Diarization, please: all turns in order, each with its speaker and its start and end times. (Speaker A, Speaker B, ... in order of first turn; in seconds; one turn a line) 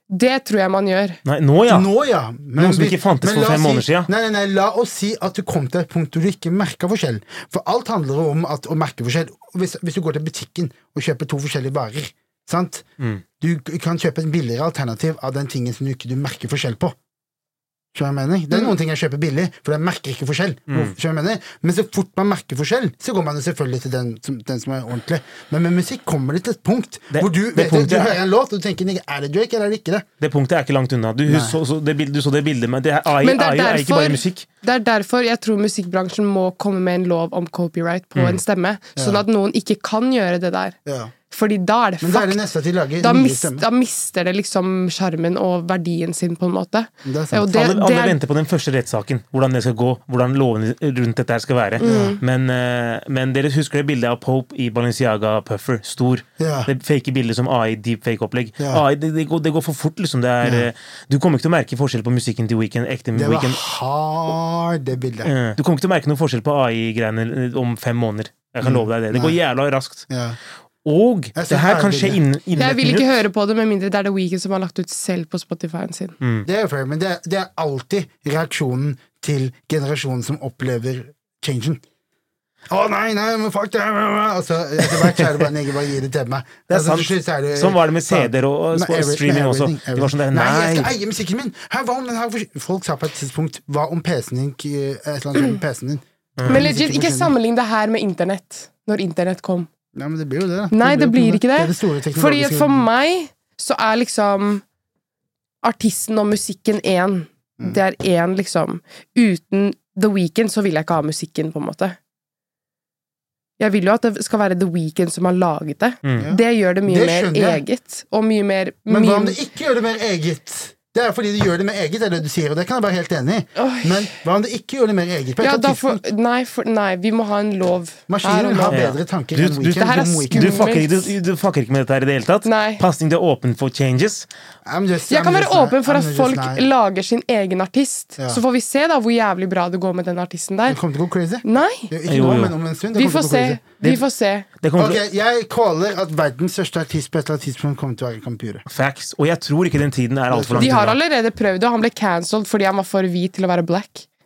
Speaker A: 0.1-1.2
Speaker B: 1.2-1.9
Speaker C: 1.7-12.8
Speaker B: 2.5-4.1
Speaker C: 13.4-16.9
Speaker C: 17.9-30.0
Speaker B: 20.7-20.9
Speaker B: 27.1-28.2
Speaker B: 30.2-34.5
Speaker C: 31.2-31.6
Speaker A: 33.2-40.7
Speaker C: 39.0-39.2
Speaker C: 40.9-41.1
Speaker A: 41.3-42.4
Speaker C: 42.0-43.6
Speaker A: 43.0-48.2
Speaker C: 47.0-47.5
Speaker B: 47.5-63.6
Speaker A: 51.8-52.2
Speaker C: 51.8-52.2
Speaker C: 56.4-56.7
Speaker C: 60.4-60.7
Speaker C: 63.1-65.3
Speaker B: 65.2-70.1
Speaker C: 68.6-69.4
Speaker C: 70.1-70.4
Speaker B: 70.8-73.1
Speaker C: 71.3-72.8
Speaker A: 72.6-76.2
Speaker B: 76.2-76.5
Speaker C: 76.4-81.8
Speaker C: 82.7-97.3
Speaker B: 84.9-85.3
Speaker B: 86.7-90.9
Speaker B: 96.4-96.6
Speaker A: 96.5-99.7
Speaker C: 99.9-102.9
Speaker A: 100.7-104.6
Speaker A: 105.6-112.0
Speaker A: 113.6-119.4
Speaker B: 116.0-116.3
Speaker C: 116.2-117.6
Speaker C: 118.9-126.0
Speaker A: 123.5-124.2
Speaker A: 125.4-128.8
Speaker C: 128.1-130.7
Speaker B: 128.7-134.3
Speaker A: 129.7-131.1
Speaker A: 132.4-132.8
Speaker C: 134.7-136.7
Speaker A: 135.1-140.8
Speaker C: 140.7-143.6
Speaker A: 141.4-141.9
Speaker B: 142.1-142.5
Speaker A: 142.9-144.5
Speaker B: 144.6-145.0
Speaker C: 144.8-148.6
Speaker B: 148.7-151.0
Speaker C: 150.3-150.8
Speaker A: 150.6-154.1